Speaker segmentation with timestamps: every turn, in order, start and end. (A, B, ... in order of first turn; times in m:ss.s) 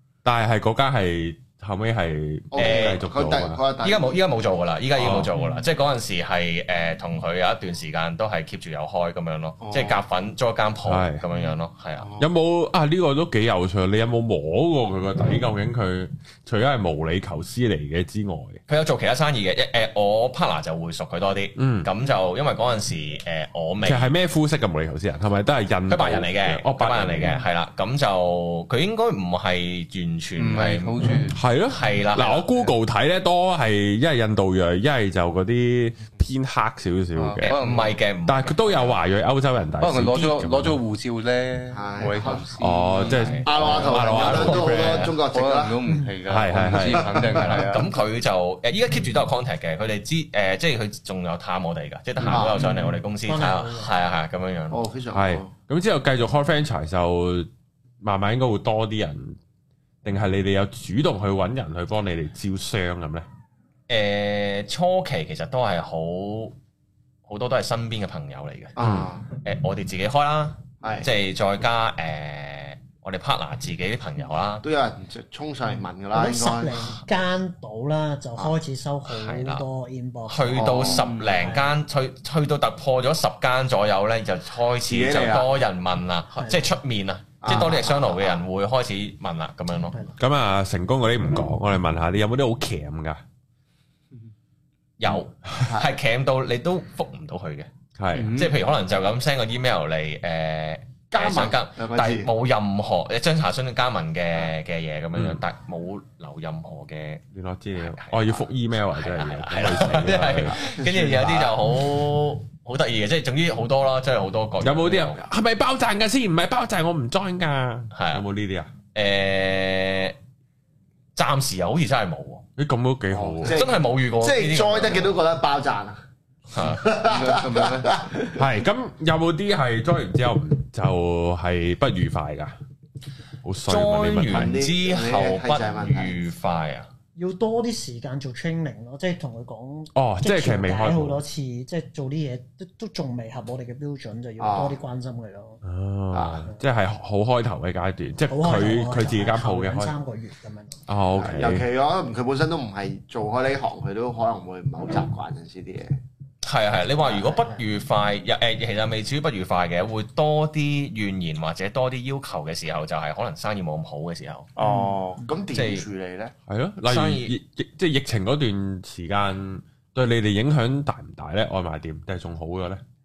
0:00.2-0:03.6 A
0:02.5-0:04.2 B
0:02.6-0:03.0 C
0:03.8-0:12.1 C
0:05.0-0:05.3 A
0:09.6-0:10.0 B
0:10.9-0:11.2 A
0:12.0-0:12.3 B
0:12.2-0:18.6 A
0:18.7-0:24.1 C
0:21.6-0:21.9 A
0:23.8-0:27.4 A
0:25.9-0:31.0 C
0:30.4-0:31.4 D
0:31.3-0:37.6 A
0:31.7-0:32.4 C
0:37.2-0:38.0 D
0:37.4-0:39.0 C
0:38.3-0:40.8 A
0:39.8-0:43.8 D
0:41.7-0:42.5 B
0:42.6-0:45.2 A
0:43.1-0:45.2 C
0:43.4-0:45.8 B
0:45.3-0:47.9 D
0:46.3-0:47.5 A
0:47.4-0:54.8 C
0:52.2-0:52.6 B
0:53.2-0:53.9 E
0:54.7-0:55.5 B
0:55.1-0:57.5 A
0:58.0-0:59.4 A
1:00.0-1:03.3 A
1:03.9-1:06.6 C
1:07.3-1:08.8 C
1:08.8-1:09.3 B
1:08.8-1:09.1 A
1:09.4-1:14.6 C
1:10.8-1:11.1 B
1:14.6-1:16.9 B
1:16.1-1:21.8 E
1:19.1-1:19.6 C
1:20.3-1:30.0 C
1:20.6-1:21.1 B
1:24.9-1:25.6 B
1:26.4-1:26.7 E
1:27.4-1:28.4 B
1:30.2-1:33.2 A
1:35.0-1:37.7 C
1:38.0-1:38.4 A
1:38.1-1:38.6 D
1:38.3-1:47.2 C
1:41.1-1:42.3 B
1:45.2-1:45.4 A
1:47.3-1:50.6 A
1:47.8-1:55.3 C
1:50.0-1:51.6 B
1:54.6-1:58.7 A
1:57.9-1:58.2 C
1:58.9-2:00.2 C
2:01.2-2:02.5 C
2:02.6-2:03.6 A
2:03.1-2:06.0 B
2:03.5-2:05.2 C
2:06.5-2:06.8 C
2:06.6-2:08.4 B
2:07.0-2:08.0 D
2:08.4-2:12.5 A
2:13.4-2:14.6 A
2:13.6-2:16.9 C
2:14.3-2:16.2 B
2:17.2-2:25.6 E
2:20.0-2:21.2 A
2:24.4-2:24.8 B
2:25.6-2:29.9 A
2:26.1-2:26.4 B
2:28.3-2:30.8 E
2:30.9-2:31.6 A
2:31.2-2:36.0 B
2:36.4-2:44.5 C
2:44.6-2:46.3 B
2:44.6-2:44.9 E
2:45.5-2:45.9 C
2:46.5-2:52.8 A
2:46.8-2:47.4 C